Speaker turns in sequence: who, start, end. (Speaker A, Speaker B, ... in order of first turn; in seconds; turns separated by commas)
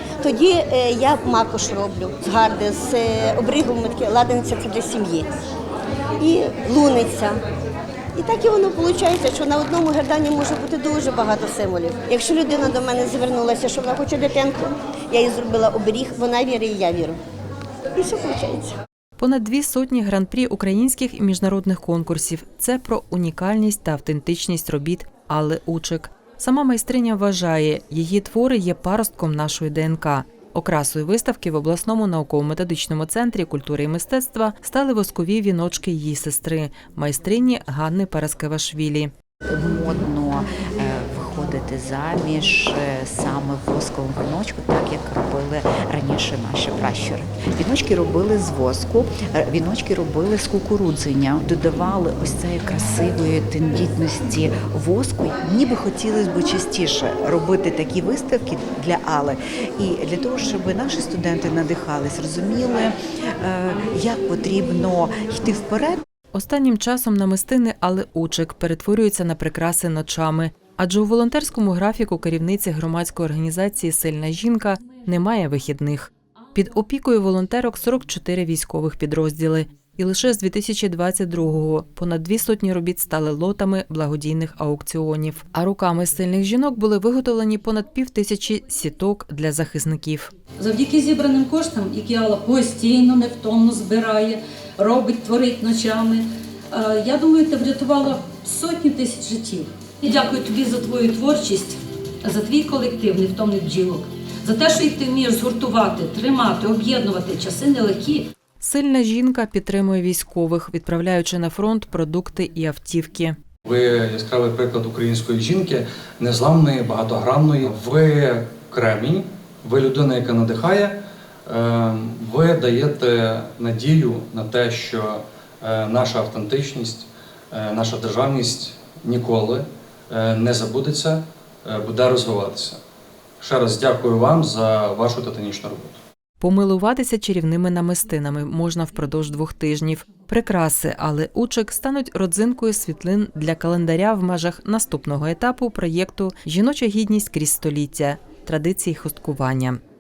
Speaker A: 0.2-5.3, Speaker A: 6.2-7.3, Speaker A: 8.2-17.2, Speaker A: 17.9-18.7, Speaker B: 19.2-39.1, Speaker C: 39.5-66.0, Speaker B: 66.3-90.3, Speaker D: 90.6-108.3, Speaker B: 108.6-113.3, Speaker E: 113.6-132.8, Speaker E: 133.4-136.0, Speaker B: 136.4-149.8